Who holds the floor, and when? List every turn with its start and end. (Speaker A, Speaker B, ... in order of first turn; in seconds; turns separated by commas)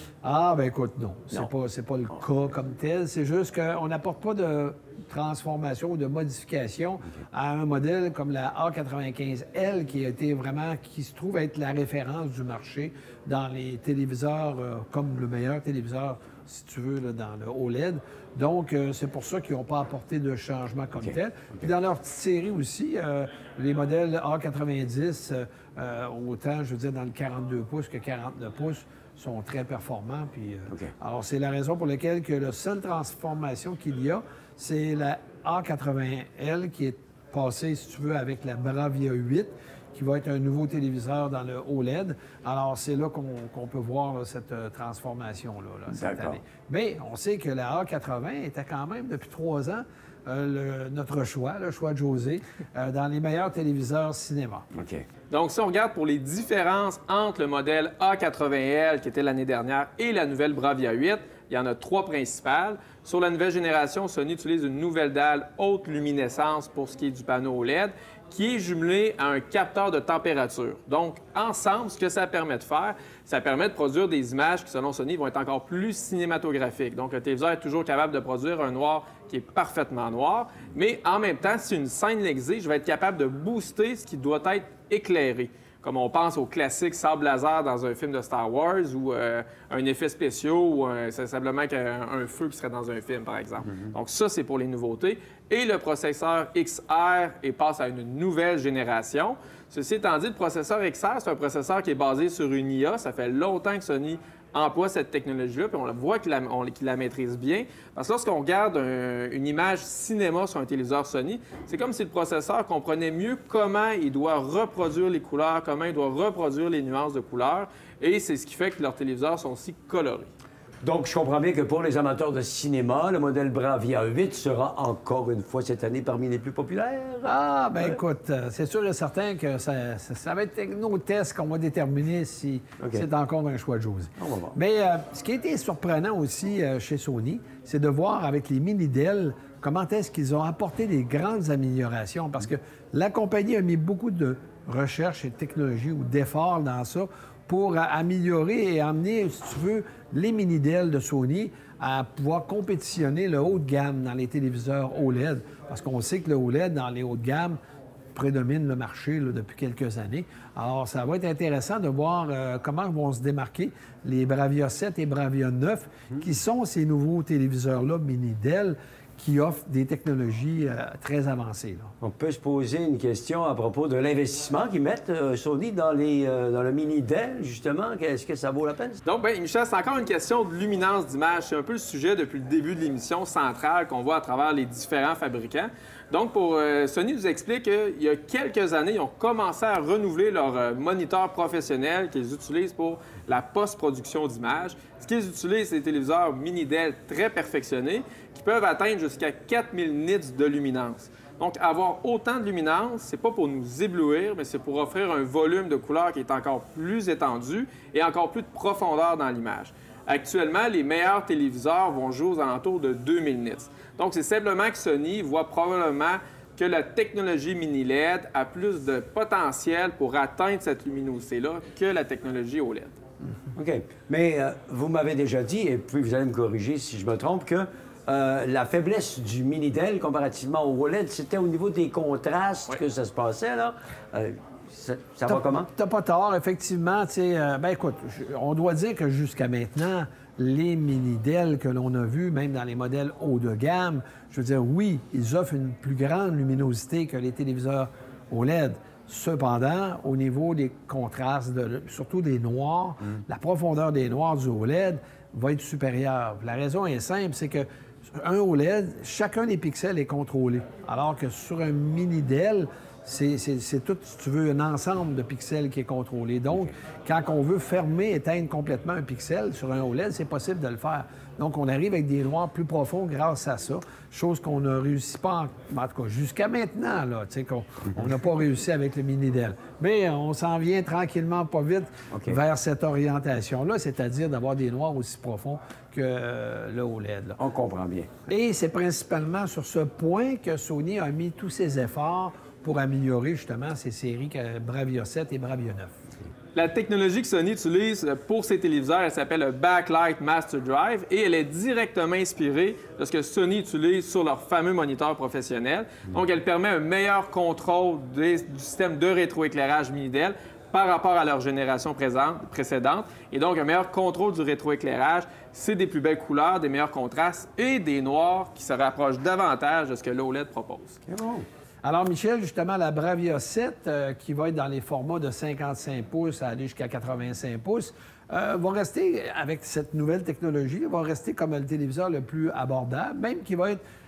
Speaker A: 0.2-54.7, Speaker B: 21.0-21.7, Speaker B: 45.9-46.4, Speaker B: 54.7-55.0, Speaker C: 55.3-120.3, Speaker B: 120.8-128.0, Speaker A: 127.2-157.6, Speaker B: 132.8-133.1, Speaker B: 134.2-134.6, Speaker A: 158.1-171.9, Speaker B: 172.0-179.0, Speaker C: 179.1-223.0, Speaker B: 223.6-235.7, Speaker A: 235.3-287.4, Speaker B: 282.1-282.4, Speaker B: 287.4-288.1, Speaker A: 288.3-296.0, Speaker C: 296.6-321.0, Speaker B: 321.1-321.4, Speaker A: 321.8-333.8